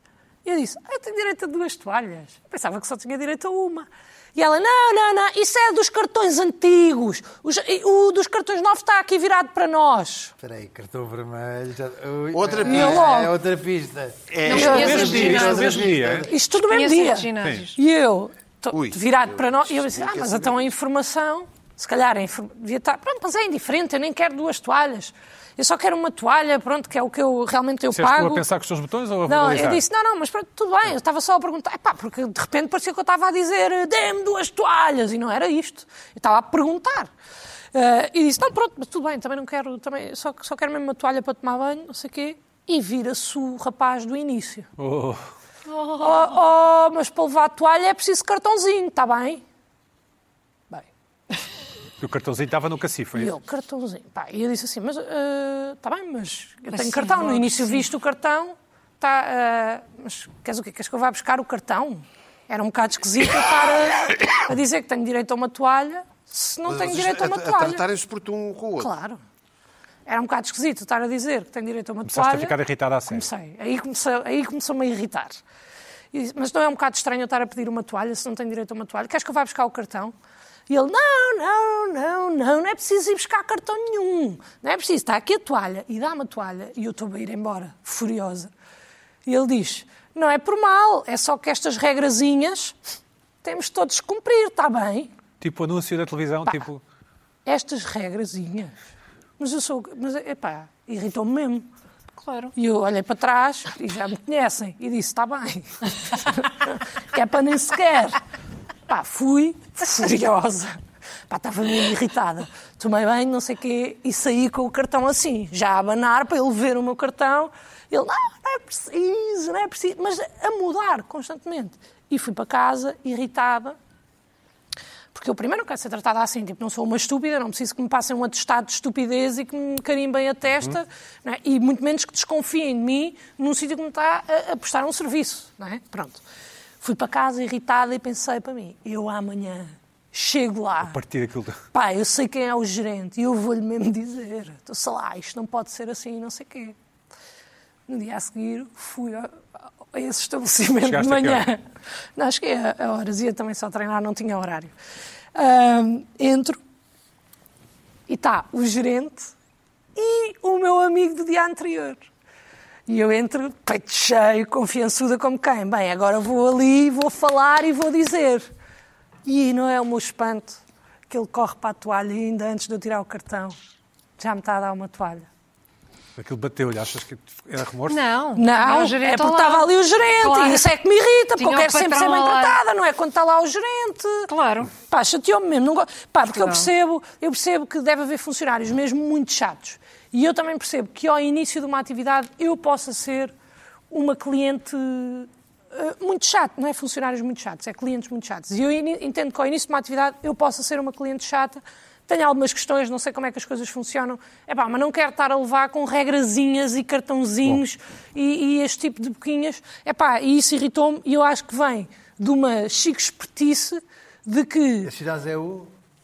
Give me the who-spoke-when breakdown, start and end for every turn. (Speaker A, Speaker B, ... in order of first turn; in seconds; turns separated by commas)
Speaker A: 0.5-10.3, Speaker B: 10.4-16.3, Speaker C: 12.3-13.1, Speaker A: 12.6-13.4, Speaker C: 14.3-15.8, Speaker D: 14.4-15.8, Speaker E: 14.5-16.3, Speaker A: 16.2-28.4, Speaker D: 16.6-17.8, Speaker C: 18.7-20.7, Speaker E: 27.9-29.9, Speaker A: 29.3-37.1, Speaker A: 37.7-44.7, Speaker E: 44.8-45.3, Speaker D: 45.7-46.4, Speaker A: 46.0-49.4, Speaker E: 52.0-53.3, Speaker A: 53.1-67.8, Speaker D: 56.7-57.9, Speaker C: 66.7-68.9, Speaker A: 68.8-69.2, Speaker A: 70.1-72.6, Speaker E: 72.1-73.3, Speaker A: 73.1-75.4, Speaker A: 76.1-80.1, Speaker A: 80.7-88.5, Speaker A: 89.3-92.8, Speaker A: 93.4-95.1, Speaker E: 95.4-96.8, Speaker A: 97.5-98.8, Speaker A: 99.4-101.7, Speaker D: 102.2-102.5, Speaker A: 102.6-108.2, Speaker A: 108.9-110.8, Speaker A: 111.3-123.8, Speaker A: 125.1-136.2, Speaker A: 136.8-141.0, Speaker E: 140.8-141.6, Speaker A: 141.7-146.8, Speaker A: 147.9-149.4, Speaker A: 149.9-151.6, Speaker E: 150.8-151.5, Speaker A: 152.2-154.7, Speaker A: 155.3-156.6, Speaker A: 158.1-159.3, Speaker A: 159.9-162.1, Speaker A: 162.9-168.5, Speaker A: 169.2-173.6, Speaker A: 174.2-175.3, Speaker E: 176.2-178.0, Speaker D: 177.9-179.7, Speaker A: 178.4-193.3, Speaker D: 180.2-180.7, Speaker D: 181.4-182.6, Speaker D: 184.3-184.7, Speaker D: 186.3-186.7, Speaker A: 193.9-214.9, Speaker B: 214.8-215.7